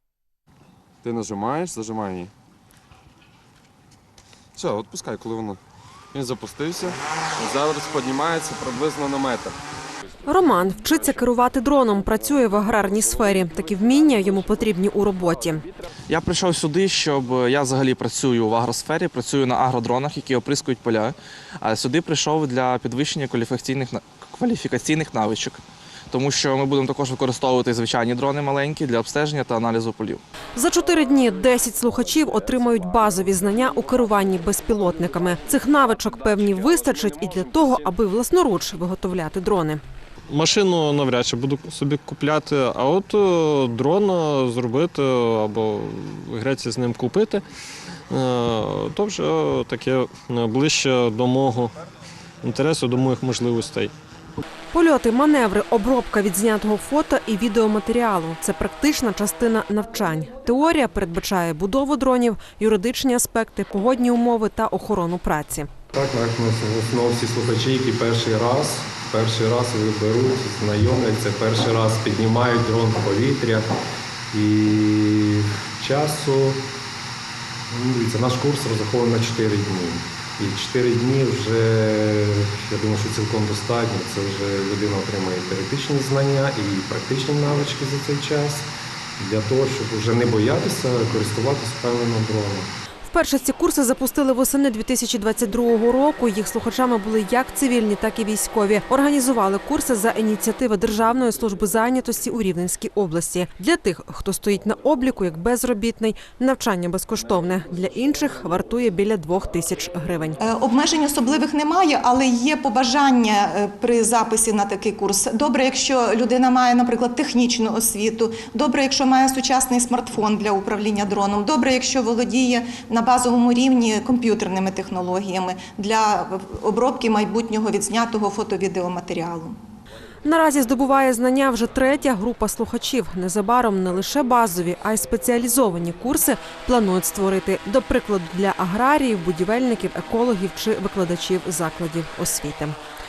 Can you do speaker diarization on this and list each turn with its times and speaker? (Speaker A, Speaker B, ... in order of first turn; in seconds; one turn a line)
Speaker A: 1.0-2.3
Speaker A: 4.5-5.6
Speaker A: 6.1-9.6
Speaker B: 10.2-15.6
Speaker C: 16.1-30.2
Speaker B: 30.5-39.8
Speaker D: 40.3-47.4
Speaker D: 48.1-51.7
Speaker D: 52.4-53.9
Speaker B: 54.7-65.7
Speaker E: 65.9-73.7
Speaker E: 74.3-76.6
Speaker E: 77.7-92.7
Speaker B: 93.0-110.4
Speaker F: 110.4-129.6
Speaker B: 130.2-142.8